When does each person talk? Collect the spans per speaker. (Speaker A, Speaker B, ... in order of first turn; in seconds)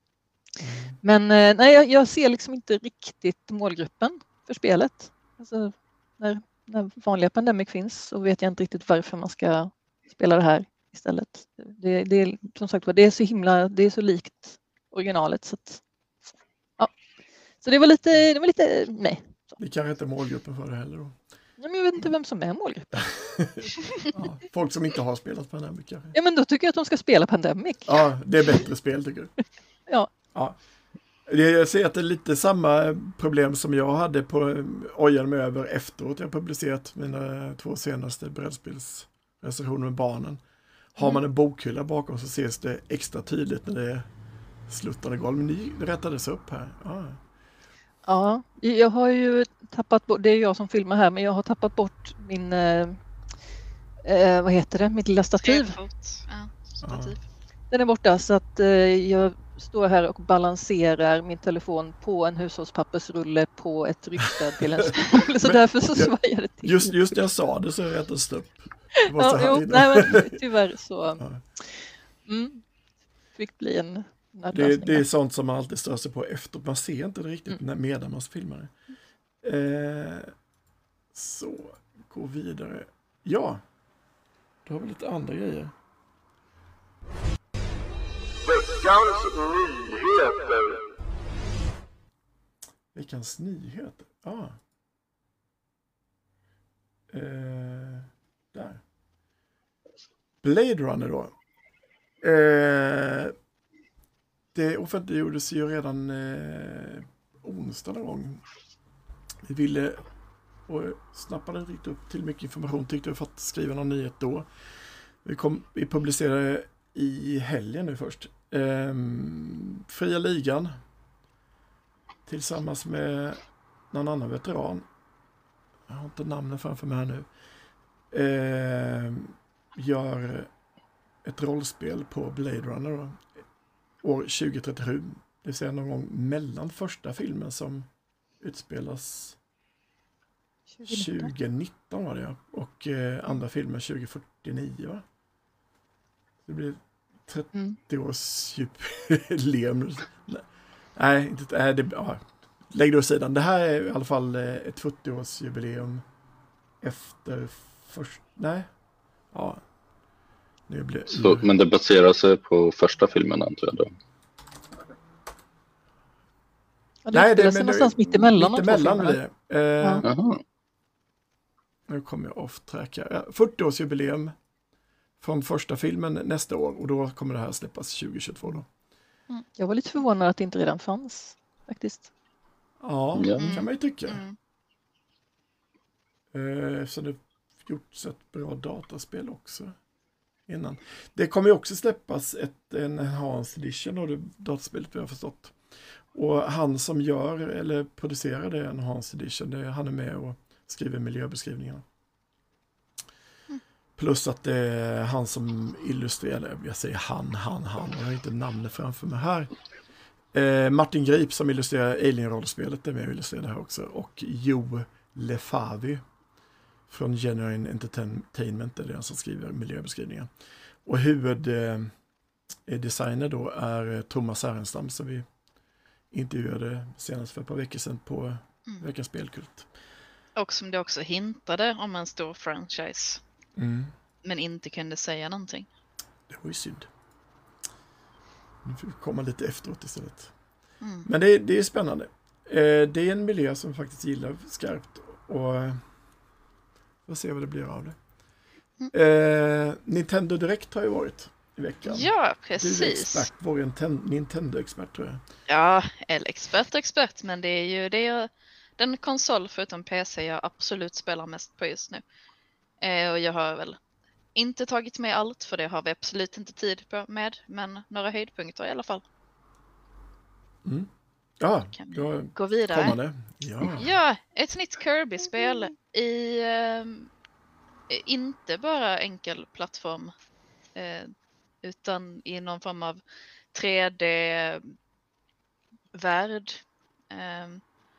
Speaker A: 0.6-1.0, 19.6-21.2, 23.1-26.1, 27.9-29.3, 31.2-40.4, 40.9-44.1, 44.7-47.2, 56.8-57.2, 65.4-70.4, 74.5-78.7, 79.4-80.3, 81.1-83.6, 84.6-85.7, 92.9-94.6, 97.1-98.8, 100.4-101.3, 102.2-103.3, 104.5-108.4, 109.4-110.0, 110.7-114.5, 115.2-120.7, 122.2-124.8, 125.9-127.3, 128.1-130.5, 131.2-133.3, 134.0-137.9, 138.4-139.4, 140.9-145.0, 146.4-156.0, 156.8-158.7, 159.3-159.6, 160.7-161.5, 167.1-170.1, 171.9-174.3, 175.2-178.7, 182.8-184.2, 186.3-189.7, 190.5-195.6, 196.1-201.8, 204.0-209.5, 210.3-216.0, 216.9-220.3, 220.8-221.9, 222.7-225.2, 226.1-229.7, 233.6-233.9, 236.3-236.9, 238.6-240.3, 241.0-245.8, 247.1-248.0, 248.9-255.2, 270.6-273.9
Speaker B: 1.0-15.8, 17.6-19.6, 21.6-23.1, 26.1-28.0, 48.0-53.0, 54.0-55.8, 57.7-67.2, 69.1-72.6, 73.3-75.0, 140.8-141.3, 147.5-147.8, 167.0-169.2, 179.6-182.1
Speaker C: 55.4-57.2, 183.4-184.3, 230.3-233.2, 234.2-235.7, 240.8-241.1, 251.8-253.3, 255.5-262.0, 262.8-263.8, 264.3-269.0, 271.7-273.0, 273.7-277.1, 277.9-280.1, 280.7-281.1, 281.6-283.0, 283.5-284.7, 285.9-287.6
Speaker D: 161.1-163.9, 170.0-170.4, 183.1-183.5